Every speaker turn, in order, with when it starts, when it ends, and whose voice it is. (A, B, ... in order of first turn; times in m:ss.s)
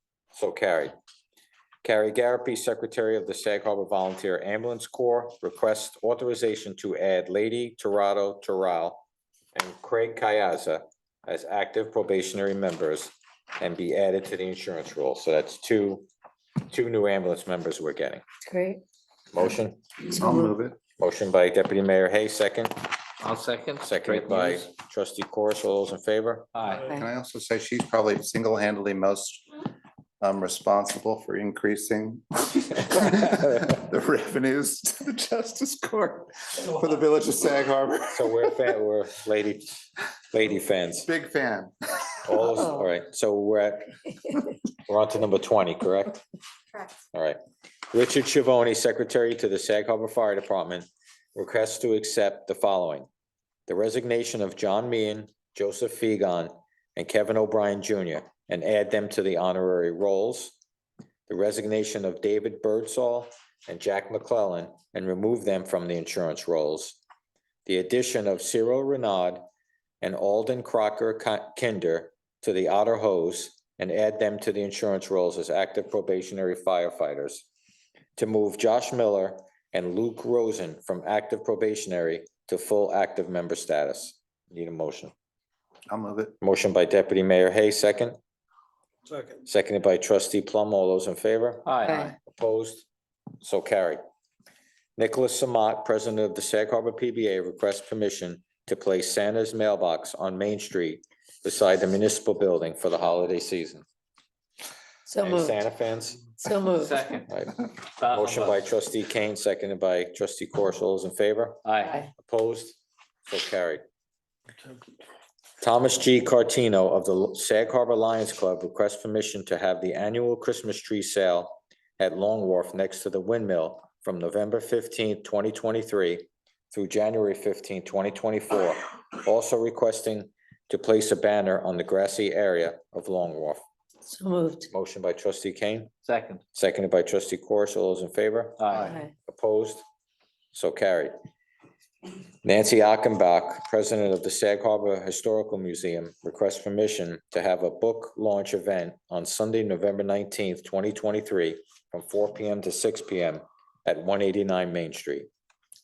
0:00.3-0:00.9 A
0:01.8-0:16.0 A
0:16.6-0:18.2 A
0:18.4-0:18.8 B
0:19.3-0:19.9 A
0:20.1-0:20.8 C
0:21.0-0:22.9 A
0:23.2-0:24.7 D
0:23.8-0:26.5 A
0:26.5-0:26.9 D
0:26.7-0:29.6 C
0:30.2-0:38.7 C
0:38.1-0:39.8 A
0:40.3-0:41.1 A
0:41.0-0:42.4 C
0:42.2-0:44.0 A
0:44.8-0:46.2 A
0:47.1-0:47.4 A
0:47.9-0:53.1 A
0:53.7-1:00.6 A
1:01.3-1:07.0 A
1:07.6-1:09.4 A
1:10.0-1:17.5 A
1:18.2-1:25.1 A
1:25.9-1:26.3 C
1:26.4-1:28.2 A
1:29.4-1:32.8 A
1:31.6-1:32.1 D
1:31.8-1:32.1 B
1:33.4-1:34.0 A
1:35.0-1:43.8 A
1:45.1-1:45.6 B
1:45.2-1:46.3 A
1:46.4-1:47.2 B
1:46.7-1:47.3 D
1:47.3-1:52.8 A
1:48.0-1:48.6 D
1:51.6-1:52.0 D
1:53.3-1:53.8 A
1:55.6-2:13.6 A
2:14.0-2:14.7 B
2:14.7-2:15.9 A
2:16.0-2:16.4 D
2:16.5-2:19.8 A
2:18.6-2:19.0 D
2:18.7-2:19.0 C
2:18.8-2:19.1 B
2:20.5-2:21.1 A
2:22.4-2:35.3 A